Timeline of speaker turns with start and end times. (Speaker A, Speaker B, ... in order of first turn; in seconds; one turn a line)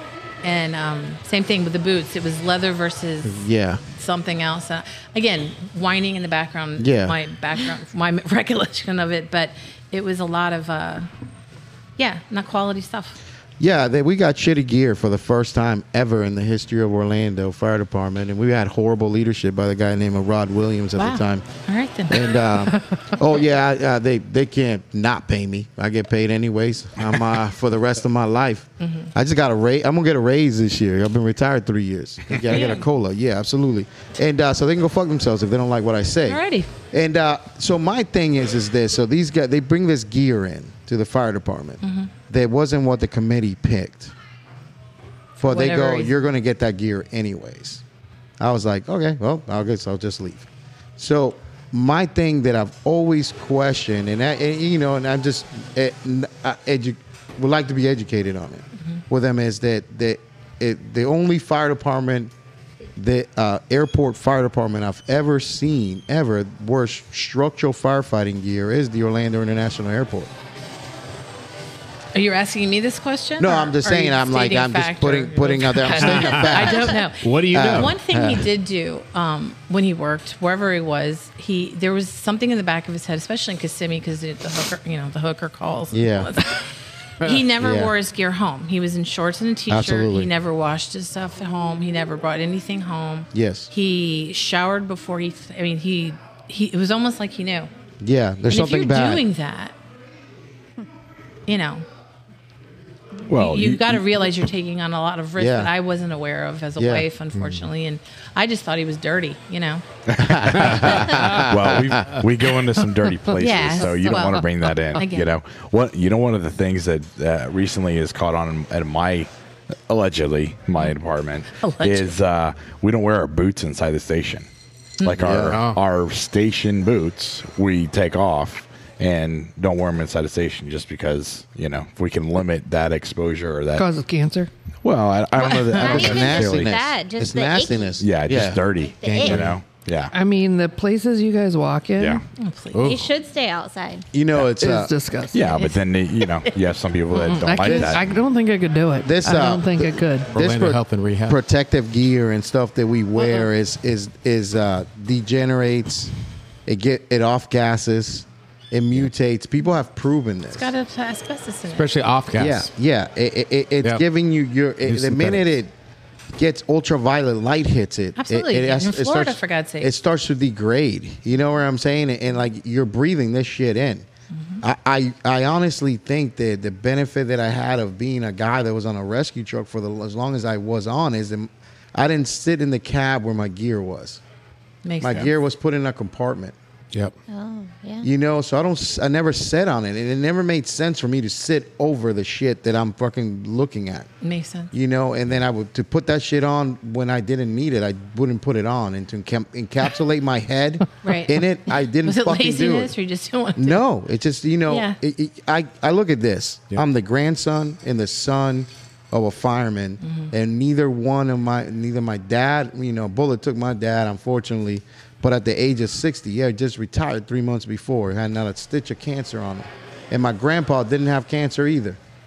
Speaker A: 0.4-11.1
Speaker B: 3.2-3.8
Speaker B: 6.8-7.2
Speaker A: 12.0-13.2
Speaker B: 13.6-21.4
Speaker A: 21.0-23.1
Speaker B: 22.1-44.1
Speaker A: 28.8-29.1
Speaker A: 32.5-32.9
Speaker A: 36.2-36.7
Speaker A: 41.8-42.1
Speaker A: 45.4-46.1
Speaker B: 45.4-47.8
Speaker B: 48.4-62.3
Speaker B: 63.0-70.3
Speaker A: 72.2-97.7
Speaker B: 73.4-78.5
Speaker C: 76.0-77.9
Speaker B: 85.9-86.3
Speaker B: 87.6-87.9
Speaker B: 89.7-90.3
Speaker B: 93.3-93.7
Speaker B: 98.0-99.2
Speaker A: 98.5-99.7
Speaker A: 101.5-101.8
Speaker A: 103.3-109.8
Speaker D: 103.3-104.5
Speaker B: 105.4-105.7
Speaker B: 106.8-107.0
Speaker C: 107.3-107.7
Speaker D: 110.1-119.3
Speaker B: 110.2-112.0
Speaker A: 113.4-115.3
Speaker D: 119.9-124.5
Speaker A: 121.6-122.2
Speaker D: 125.0-133.9
Speaker B: 125.2-125.6
Speaker C: 125.3-125.8
Speaker E: 133.7-134.5
Speaker D: 134.8-136.7
Speaker A: 135.4-135.8
Speaker F: 135.7-138.0
Speaker B: 135.8-138.6
Speaker D: 138.0-140.1
Speaker F: 138.8-139.4
Speaker C: 139.1-139.6
Speaker E: 140.1-142.2
Speaker A: 142.4-143.0
Speaker C: 142.7-143.1
Speaker F: 142.8-144.0
Speaker B: 144.1-144.9
Speaker E: 144.4-145.4
Speaker D: 145.3-148.1
Speaker A: 145.4-145.8
Speaker E: 147.2-150.3
Speaker B: 147.6-147.9
Speaker B: 149.0-156.1
Speaker C: 150.3-151.4
Speaker B: 156.7-160.7
Speaker A: 160.5-161.9
Speaker C: 161.7-162.7
Speaker B: 162.3-165.7
Speaker C: 164.9-165.4
Speaker B: 166.4-174.1
Speaker A: 168.2-169.9
Speaker A: 174.3-174.6
Speaker B: 174.6-184.2
Speaker A: 184.8-185.3
Speaker B: 185.0-186.6
Speaker F: 187.3-188.1
Speaker B: 188.0-194.1
Speaker A: 194.2-194.7
Speaker B: 194.7-202.9
Speaker A: 201.0-201.4
Speaker A: 202.0-203.8
Speaker B: 203.6-222.0
Speaker A: 204.7-205.0
Speaker A: 210.0-210.3